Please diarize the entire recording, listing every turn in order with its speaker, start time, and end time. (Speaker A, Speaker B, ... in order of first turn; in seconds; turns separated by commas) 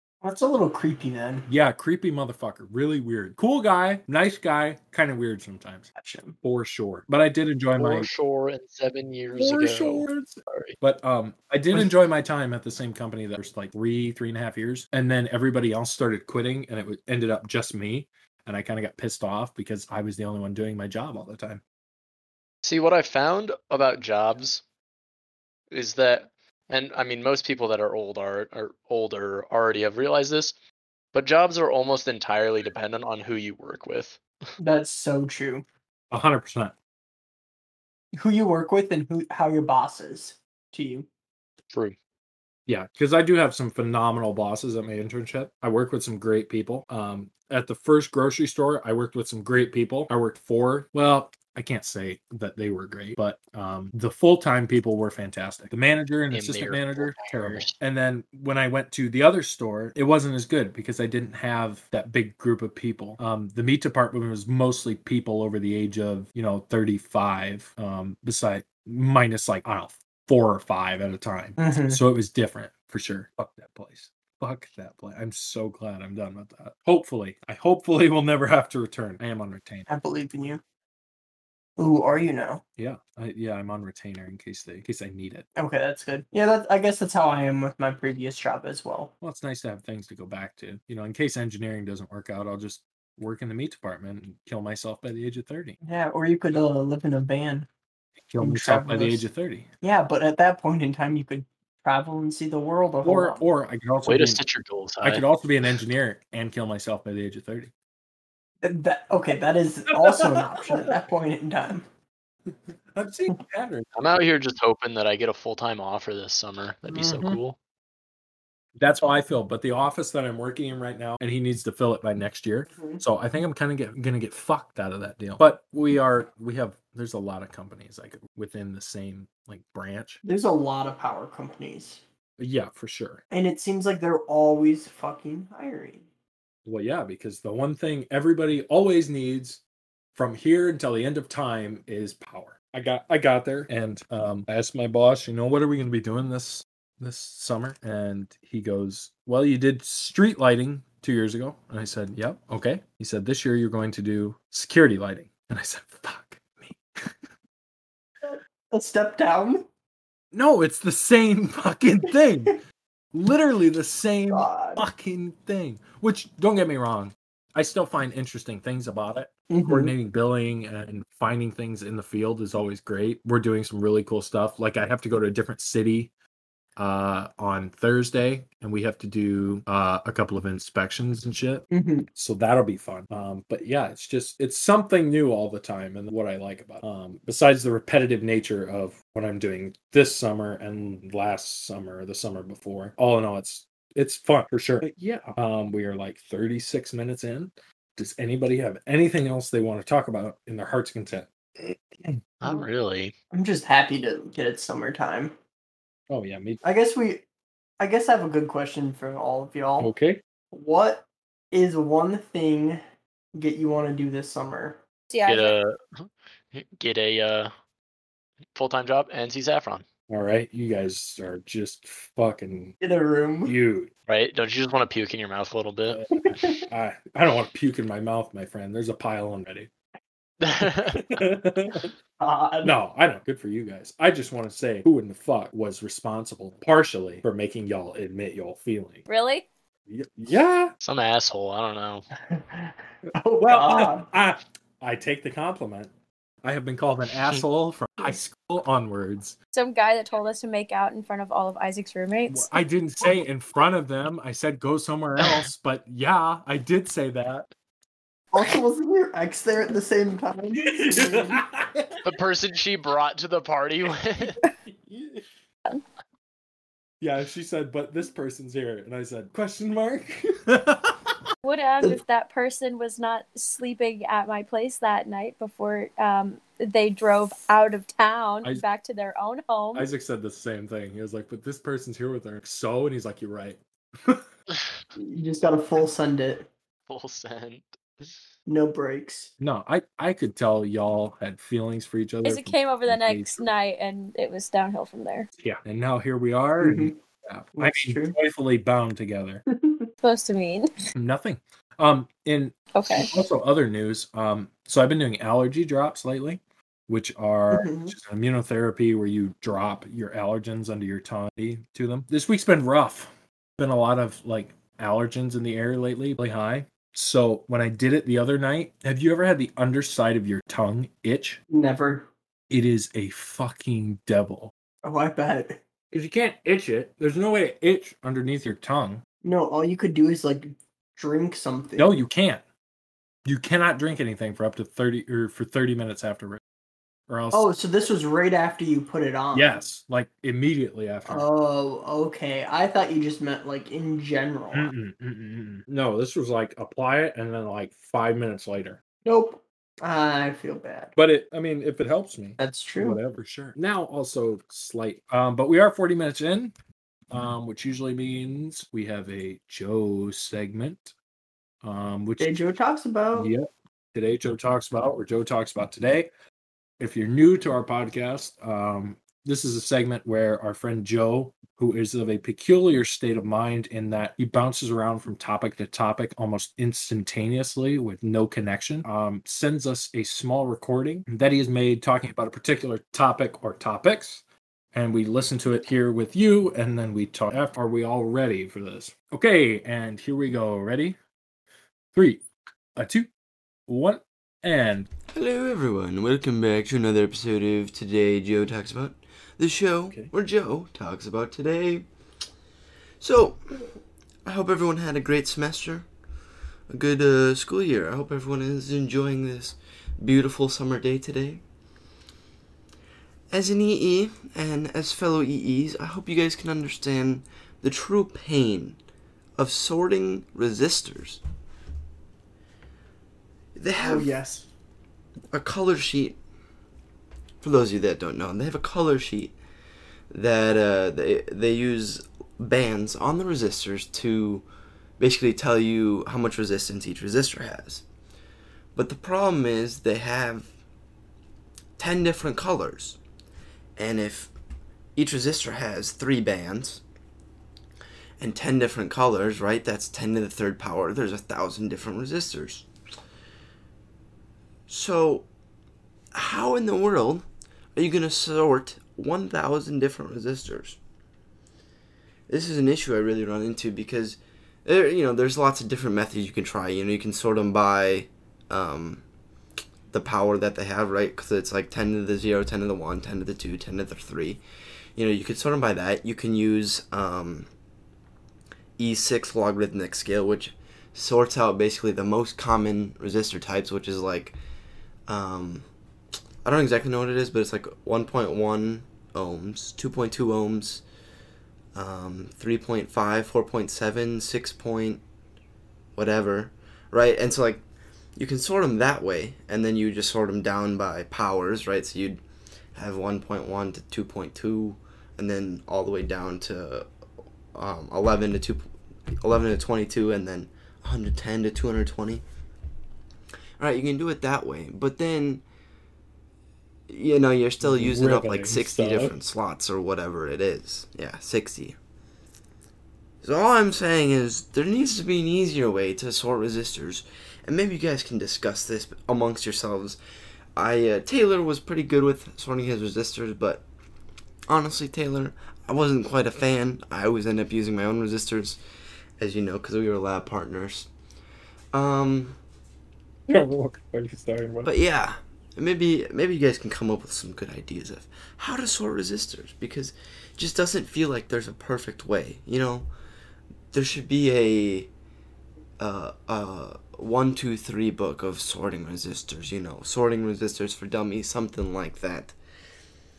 Speaker A: 0.2-1.5, Speaker B: 1.5-5.9, Speaker A: 6.0-6.4, Speaker B: 6.4-8.1, Speaker C: 7.8-10.7, Speaker B: 9.3-21.6, Speaker C: 22.6-24.6, Speaker C: 25.7-30.5, Speaker C: 31.1-34.2, Speaker A: 34.6-35.6, Speaker B: 36.1-36.7, Speaker A: 38.1-41.1, Speaker B: 42.7-79.9, Speaker C: 56.3-57.7, Speaker A: 71.6-72.0, Speaker A: 79.9-80.6, Speaker A: 81.8-82.6, Speaker B: 82.8-85.4, Speaker A: 85.5-89.1, Speaker B: 89.2-95.8, Speaker A: 95.8-97.7, Speaker B: 98.2-99.7, Speaker A: 98.4-99.2, Speaker A: 99.8-103.4, Speaker B: 103.0-104.4, Speaker C: 104.0-105.2, Speaker B: 105.0-107.7, Speaker A: 108.6-111.8, Speaker B: 109.9-110.9, Speaker B: 112.9-113.9, Speaker C: 114.0-117.5, Speaker B: 118.8-130.2, Speaker A: 122.7-123.0, Speaker A: 130.2-132.0, Speaker B: 132.4-133.2, Speaker A: 133.3-136.1, Speaker B: 136.7-139.6, Speaker B: 140.2-156.8, Speaker A: 158.2-159.7, Speaker B: 160.3-162.6, Speaker B: 163.1-176.1, Speaker A: 164.3-164.8, Speaker A: 169.5-169.9, Speaker B: 176.8-202.2, Speaker A: 181.7-182.1, Speaker C: 202.4-203.1, Speaker A: 203.3-205.3, Speaker B: 206.1-206.6, Speaker A: 206.6-207.2, Speaker A: 207.8-209.9, Speaker B: 209.8-210.2, Speaker A: 210.5-212.8, Speaker A: 213.3-214.8, Speaker D: 215.1-215.6, Speaker C: 215.3-217.5, Speaker C: 218.5-219.8, Speaker B: 220.1-222.8, Speaker A: 222.8-223.6, Speaker B: 223.4-223.9, Speaker C: 224.1-226.0, Speaker B: 225.9-229.7, Speaker A: 226.3-226.6, Speaker C: 230.4-231.0, Speaker B: 230.9-231.9, Speaker A: 232.2-232.7, Speaker B: 232.6-239.0, Speaker D: 239.1-239.4, Speaker B: 239.9-240.7, Speaker C: 240.8-242.1, Speaker A: 242.3-244.1, Speaker B: 243.4-245.9, Speaker B: 246.4-249.3, Speaker D: 249.5-252.6, Speaker B: 252.3-257.5, Speaker A: 258.3-261.4, Speaker B: 260.7-262.0, Speaker C: 262.0-264.4, Speaker B: 264.7-265.2, Speaker B: 267.0-271.1, Speaker D: 271.4-279.9, Speaker B: 279.7-284.2, Speaker A: 284.9-286.5, Speaker C: 286.9-288.1, Speaker A: 288.5-289.3, Speaker B: 289.4-293.5, Speaker D: 292.2-295.3, Speaker B: 295.4-299.4, Speaker A: 296.6-297.0, Speaker A: 297.5-298.1, Speaker A: 299.5-299.9, Speaker D: 300.0-300.7, Speaker B: 300.9-302.5, Speaker D: 302.7-303.1, Speaker B: 303.1-321.4, Speaker A: 307.5-307.9, Speaker A: 321.5-322.1, Speaker B: 322.5-324.5, Speaker A: 324.8-325.6, Speaker B: 325.9-329.0, Speaker A: 329.2-331.9, Speaker B: 331.8-332.4, Speaker B: 333.2-336.4, Speaker B: 337.1-337.5, Speaker A: 337.3-339.5, Speaker B: 339.3-341.2, Speaker A: 341.1-344.7, Speaker B: 344.5-348.8, Speaker A: 349.0-350.9, Speaker B: 350.9-356.5, Speaker A: 352.4-353.0, Speaker B: 357.1-360.9, Speaker B: 361.6-362.4, Speaker A: 362.2-363.3, Speaker B: 363.1-366.1, Speaker B: 366.8-384.2, Speaker B: 384.7-391.0, Speaker B: 391.9-392.2, Speaker B: 392.8-393.1, Speaker B: 393.7-394.9, Speaker E: 395.1-401.8, Speaker E: 403.0-403.6, Speaker E: 404.2-405.9, Speaker E: 406.7-411.4, Speaker E: 413.3-418.8, Speaker E: 419.4-421.2, Speaker E: 423.5-424.1, Speaker A: 423.8-424.5, Speaker E: 425.3-426.2, Speaker E: 427.4-429.4, Speaker E: 430.1-434.4, Speaker E: 435.0-437.8, Speaker E: 438.7-440.5, Speaker E: 441.8-443.0, Speaker E: 443.8-444.3, Speaker E: 444.9-446.8, Speaker E: 448.2-452.6, Speaker E: 454.7-455.3, Speaker E: 456.1-460.8, Speaker E: 462.3-469.0, Speaker E: 469.9-474.4, Speaker E: 474.9-477.5, Speaker E: 478.8-484.3, Speaker E: 485.1-485.6, Speaker E: 486.4-490.8, Speaker E: 491.7-495.0, Speaker E: 495.9-497.6, Speaker E: 498.1-502.2, Speaker E: 502.7-506.9, Speaker E: 507.5-508.7, Speaker E: 509.2-512.2, Speaker E: 513.6-515.4, Speaker E: 516.9-521.8, Speaker B: 517.6-519.1, Speaker E: 523.2-530.0, Speaker E: 530.5-533.6, Speaker E: 534.5-538.6, Speaker E: 539.2-540.9, Speaker E: 541.7-542.4, Speaker B: 543.3-544.7, Speaker E: 544.6-552.9, Speaker E: 553.7-554.9, Speaker E: 555.8-562.4